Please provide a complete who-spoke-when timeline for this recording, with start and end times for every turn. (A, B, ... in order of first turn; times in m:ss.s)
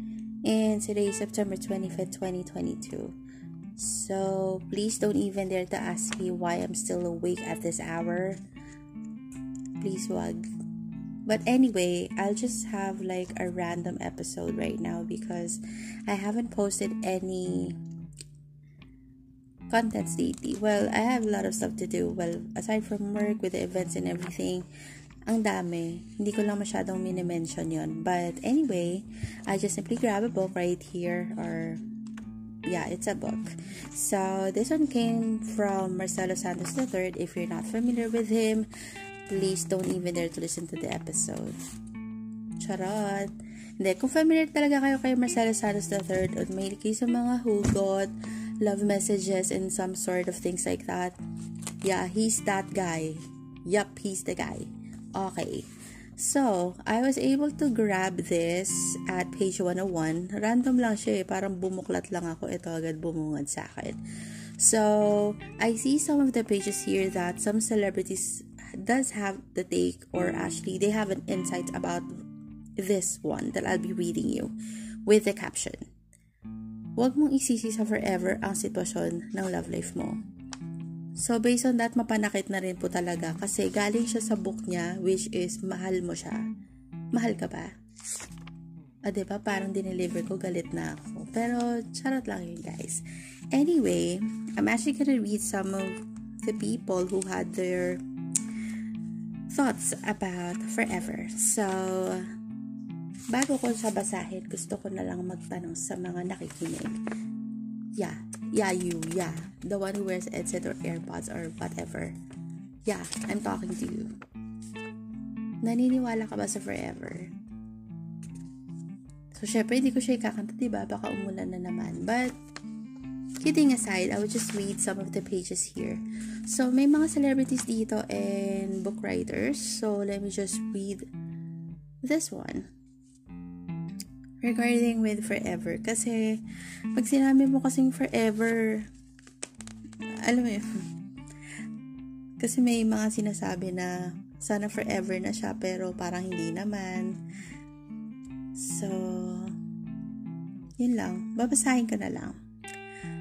0:00.4-0:03.2 A
0:03.7-0:08.4 A
0:09.8-0:10.4 A
0:11.2-0:17.8 A
0:19.7-0:24.6 A
0:25.3-0:31.8 A
0:32.6-0:38.7 A
0:39.3-0:41.6 A
0:42.6-0:51.2 A
0:51.8-1:04.0 A
1:04.6-1:12.1 A
1:12.8-1:14.5 A
1:15.0-1:15.8 A
1:17.0-1:20.2 A
1:21.2-1:26.4 A
1:27.1-1:27.7 A
1:29.0-1:38.0 A
1:39.5-1:42.2 A
1:43.3-1:46.9 A
1:48.0-1:52.2 A
1:52.8-1:54.1 A
1:55.6-1:57.3 A
1:59.4-2:02.4 A
2:03.4-2:11.0 A
2:12.0-2:12.7 A
2:14.4-2:16.4 A
2:16.9-2:18.9 A
2:20.2-2:20.8 A
2:22.4-2:27.2 A
2:28.6-2:29.6 A
2:30.8-2:32.4 A